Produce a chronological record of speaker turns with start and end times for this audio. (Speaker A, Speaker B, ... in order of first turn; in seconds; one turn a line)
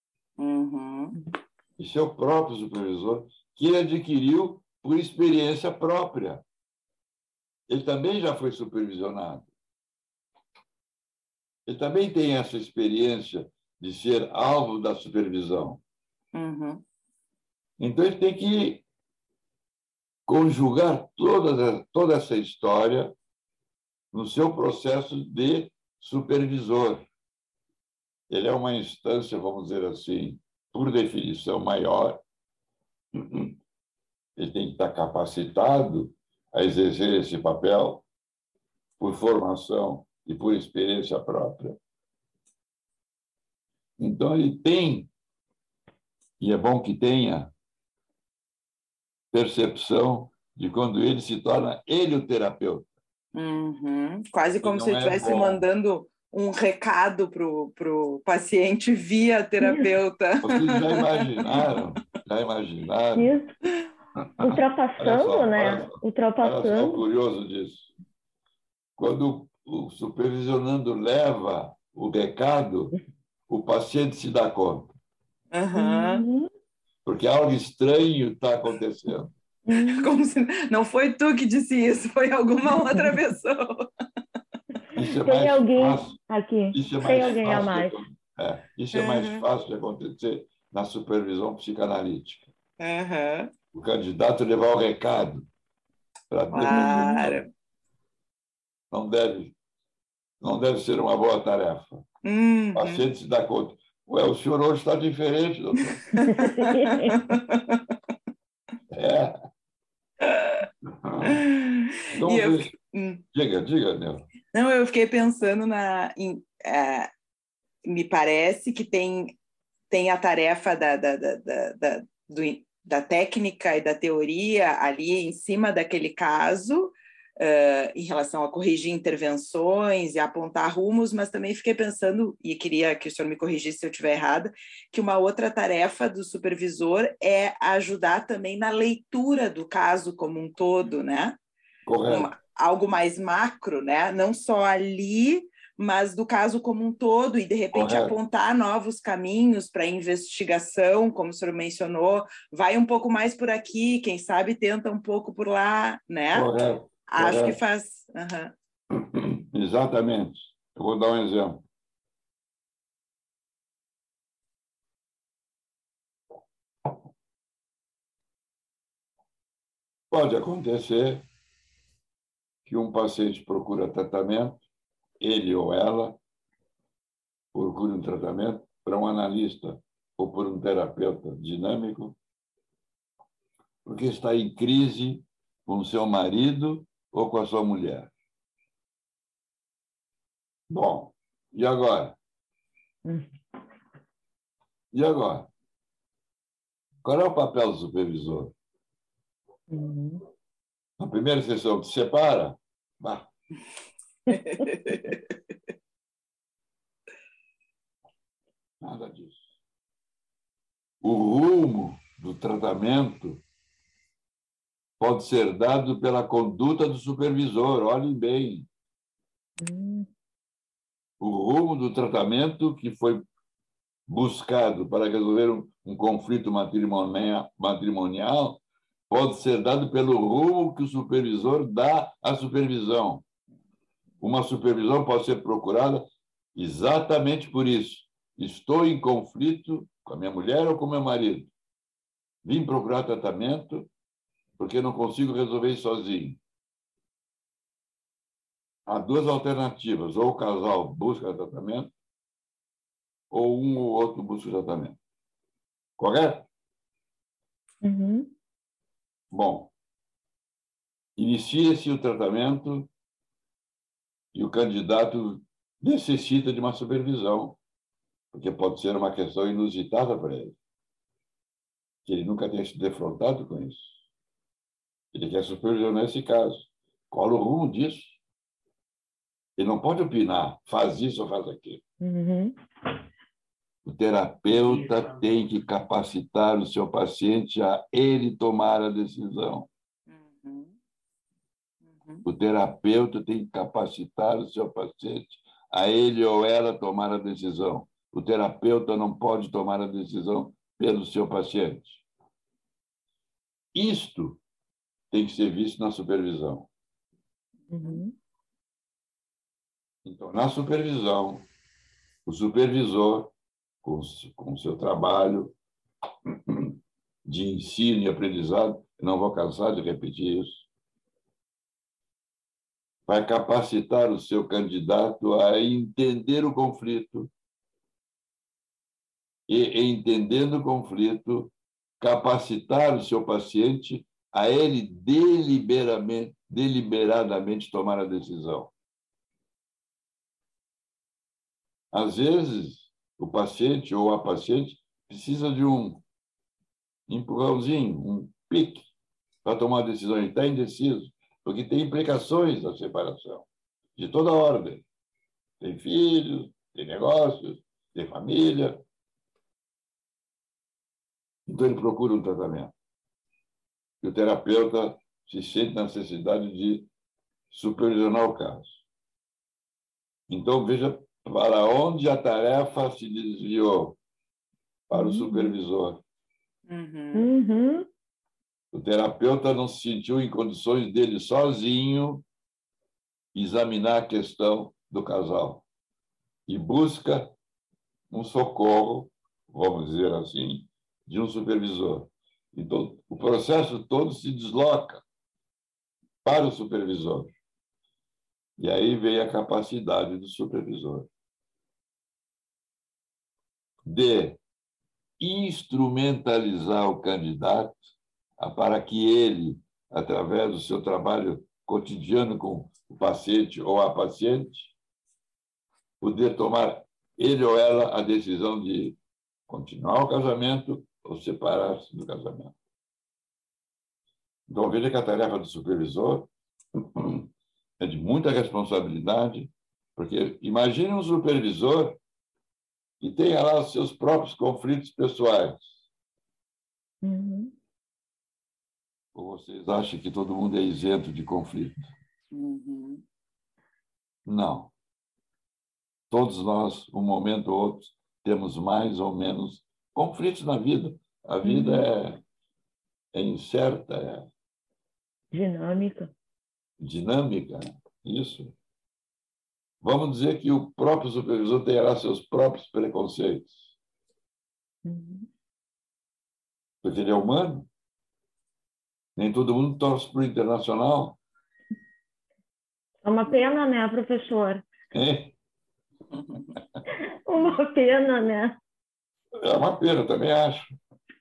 Speaker A: 0.4-1.1
Speaker B: 1.8-6.4
Speaker B: 7.7-9.5
Speaker B: 11.7-15.8
Speaker A: 16.3-16.8
Speaker B: 17.8-18.8
Speaker B: 20.3-23.1
Speaker B: 24.1-27.1
Speaker B: 28.3-32.2
Speaker B: 33.1-33.5
Speaker B: 34.4-38.0
Speaker B: 39.0-41.8
Speaker B: 44.0-45.1
Speaker B: 46.4-47.5
Speaker B: 49.3-52.9
Speaker A: 53.3-61.6
Speaker B: 54.6-55.6
Speaker B: 60.4-63.4
Speaker C: 63.1-63.5
Speaker B: 64.4-67.9
Speaker C: 64.4-67.0
Speaker B: 69.0-72.9
Speaker B: 73.5-74.9
Speaker A: 75.5-76.2
Speaker C: 75.8-76.5
Speaker B: 77.0-79.3
Speaker C: 79.7-80.1
Speaker A: 79.7-83.9
Speaker B: 84.9-86.1
Speaker C: 85.1-88.0
Speaker B: 86.7-92.5
Speaker A: 88.9-89.4
Speaker A: 92.8-93.5
Speaker B: 93.7-95.5
Speaker B: 96.3-97.4
Speaker A: 96.5-97.5
Speaker C: 96.6-97.3
Speaker B: 98.9-99.5
Speaker B: 100.4-102.0
Speaker A: 102.2-103.1
Speaker B: 102.8-106.2
Speaker A: 105.8-107.8
Speaker C: 106.2-107.1
Speaker B: 108.9-109.3
Speaker A: 110.2-110.7
Speaker B: 111.0-111.4
Speaker A: 111.2-113.2
Speaker B: 112.1-112.7
Speaker B: 113.3-114.3
Speaker A: 114.5-117.1
Speaker A: 117.8-119.3
Speaker A: 119.9-141.4
Speaker B: 141.9-142.3
Speaker A: 142.1-158.5
Speaker B: 147.7-148.2
Speaker B: 156.3-157.6
Speaker B: 158.9-161.7
Speaker B: 170.1-171.3
Speaker B: 172.7-174.6
Speaker B: 175.2-176.2
Speaker B: 177.5-182.2
Speaker B: 183.8-188.1
Speaker B: 190.7-192.2
Speaker B: 194.9-195.5
Speaker B: 197.0-198.5
Speaker C: 199.7-200.2
Speaker B: 201.0-203.3
Speaker A: 204.3-205.2
Speaker B: 208.8-209.4
Speaker B: 211.0-213.4
Speaker B: 215.0-218.7
Speaker C: 219.6-220.1
Speaker B: 221.2-223.2
Speaker B: 224.1-233.2
Speaker B: 234.2-241.5
Speaker B: 242.4-243.9
Speaker B: 244.6-246.4
Speaker B: 248.9-251.9
Speaker B: 253.3-255.0
Speaker B: 256.0-256.5
Speaker C: 257.8-258.3
Speaker B: 259.3-259.7
Speaker B: 261.2-262.9
Speaker B: 264.3-267.6
Speaker B: 268.3-270.6
Speaker B: 272.1-273.9
Speaker B: 275.1-278.2
Speaker B: 279.6-281.8
Speaker C: 282.0-282.6
Speaker B: 283.9-289.7
Speaker A: 290.1-290.7
Speaker A: 291.9-292.3
Speaker B: 292.3-302.0
Speaker B: 303.7-304.4
Speaker B: 305.1-306.7
Speaker C: 307.7-308.1
Speaker B: 310.1-311.5
Speaker B: 312.3-315.6
Speaker B: 316.3-320.6
Speaker B: 323.1-327.3
Speaker B: 329.5-338.7
Speaker B: 341.9-346.0
Speaker B: 347.1-348.9
Speaker B: 349.4-354.9
Speaker B: 355.6-358.8
Speaker B: 361.5-362.7
Speaker B: 364.0-366.9
Speaker B: 367.5-368.8
Speaker B: 370.3-374.0
Speaker B: 374.9-376.0
Speaker C: 374.9-375.5
Speaker A: 376.7-377.3
Speaker C: 377.1-377.9
Speaker B: 378.7-382.2
Speaker B: 383.3-385.6
Speaker B: 386.5-387.3
Speaker B: 388.1-395.0
Speaker B: 396.2-397.4
Speaker B: 398.6-401.1
Speaker B: 403.8-404.4
Speaker B: 405.2-414.7
Speaker B: 416.0-419.0
Speaker B: 419.5-422.5
Speaker B: 424.5-427.3
Speaker B: 427.8-432.0
Speaker B: 433.0-435.8
Speaker C: 437.0-437.5
Speaker B: 439.1-441.9
Speaker A: 442.3-443.0
Speaker B: 444.3-444.7
Speaker B: 446.1-452.2
Speaker C: 451.4-451.9
Speaker B: 453.1-454.3
Speaker C: 455.3-456.1
Speaker B: 456.8-458.5
Speaker B: 459.8-463.7
Speaker C: 464.9-465.3
Speaker B: 466.8-467.7
Speaker B: 469.2-471.2
Speaker C: 473.0-474.7
Speaker B: 474.9-475.4
Speaker C: 477.3-478.6
Speaker B: 479.4-480.8